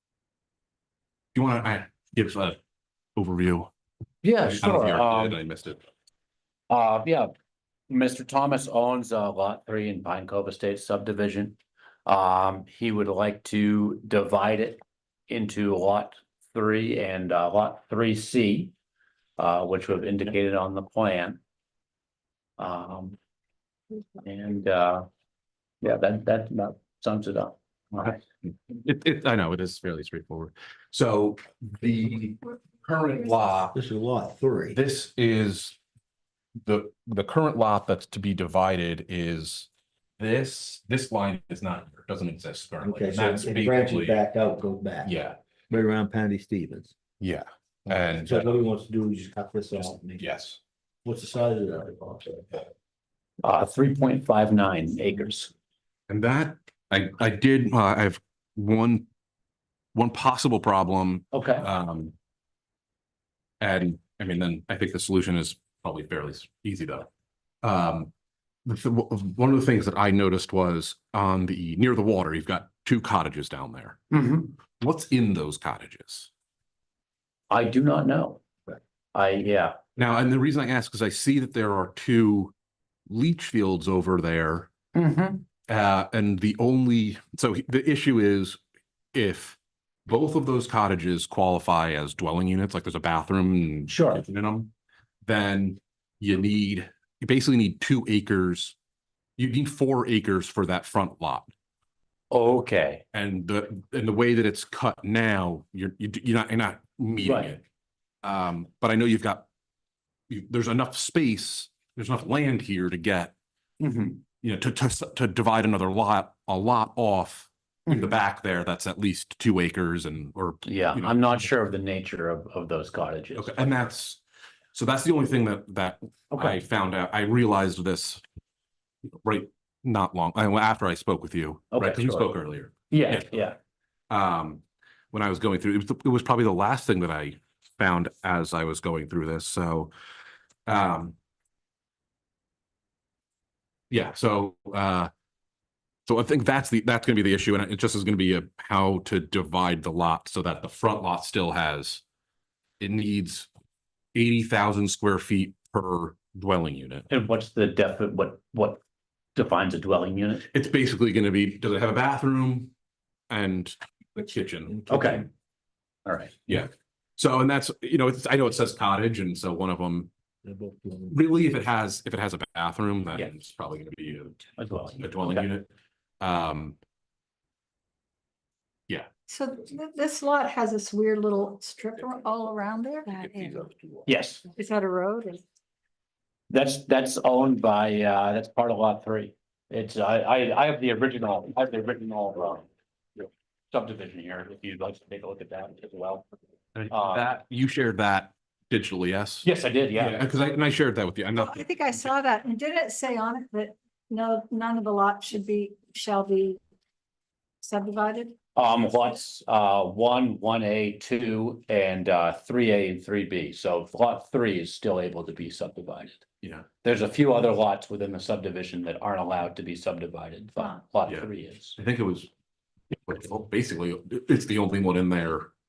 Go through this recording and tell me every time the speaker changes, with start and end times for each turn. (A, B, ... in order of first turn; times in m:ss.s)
0:01.3-0:02.6 A
0:03.2-0:03.7 A
0:04.2-0:05.4 B
0:04.5-0:05.8 A
0:06.7-0:07.3 B
0:07.9-0:18.8 B
0:19.4-0:21.4 B
0:22.6-0:23.2 B
0:24.2-0:25.1 B
0:25.8-0:28.2 B
0:28.7-0:33.8 A
0:33.8-0:34.8 C
0:34.7-0:35.8 A
0:36.7-0:44.2 A
0:42.8-0:45.1 C
0:45.0-0:45.4 A
0:45.7-0:46.9 C
0:47.2-0:48.5 A
0:47.9-0:50.2 C
0:50.2-0:50.6 A
0:51.0-0:52.6 C
0:53.4-0:55.5 B
0:56.1-0:59.1 A
1:00.0-1:02.1 A
1:01.3-1:01.7 B
1:03.6-1:07.1 A
1:07.6-1:08.1 A
1:08.6-1:14.0 A
1:14.1-1:14.5 B
1:14.8-1:16.3 A
1:17.5-1:18.4 B
1:19.1-1:19.8 B
1:20.0-1:22.5 A
1:23.1-1:24.7 A
1:25.0-1:25.4 B
1:25.7-1:28.6 A
1:29.1-1:34.7 A
1:33.9-1:34.2 B
1:35.2-1:38.8 A
1:39.4-1:41.5 A
1:42.3-1:43.0 B
1:43.1-1:47.6 A
1:47.2-1:47.6 B
1:48.2-1:49.5 A
1:50.3-1:53.3 A
1:53.8-1:54.2 B
1:54.4-2:01.5 A
1:57.9-1:58.1 B
2:00.6-2:03.8 B
2:03.4-2:04.2 A
2:04.7-2:08.2 A
2:06.3-2:06.6 B
2:09.2-2:13.3 A
2:11.7-2:12.3 B
2:12.9-2:13.6 B
2:14.1-2:19.9 A
2:20.7-2:21.2 A
2:23.9-2:25.1 A
2:26.1-2:32.0 A
2:32.8-2:33.5 A
2:34.1-2:37.1 A
2:37.1-2:38.8 B
2:39.4-2:40.5 B
2:40.5-2:42.7 A
2:43.3-2:44.8 A
2:44.7-2:45.2 C
2:44.9-2:45.3 B
2:46.1-2:46.4 B
2:46.5-2:50.1 A
2:50.4-2:51.2 C
2:51.1-2:54.4 A
2:54.6-2:55.5 B
2:55.0-2:56.8 A
2:59.3-3:03.6 D
3:03.2-3:03.9 C
3:04.1-3:04.4 B
3:04.4-3:05.4 D
3:06.5-3:16.2 B
3:16.8-3:22.1 A
3:16.9-3:17.3 B
3:19.4-3:20.2 B
3:21.4-3:26.6 D
3:27.6-3:28.4 D
3:28.6-3:36.2 B
3:36.8-3:41.8 B
3:41.1-3:42.3 A
3:43.1-3:45.5 A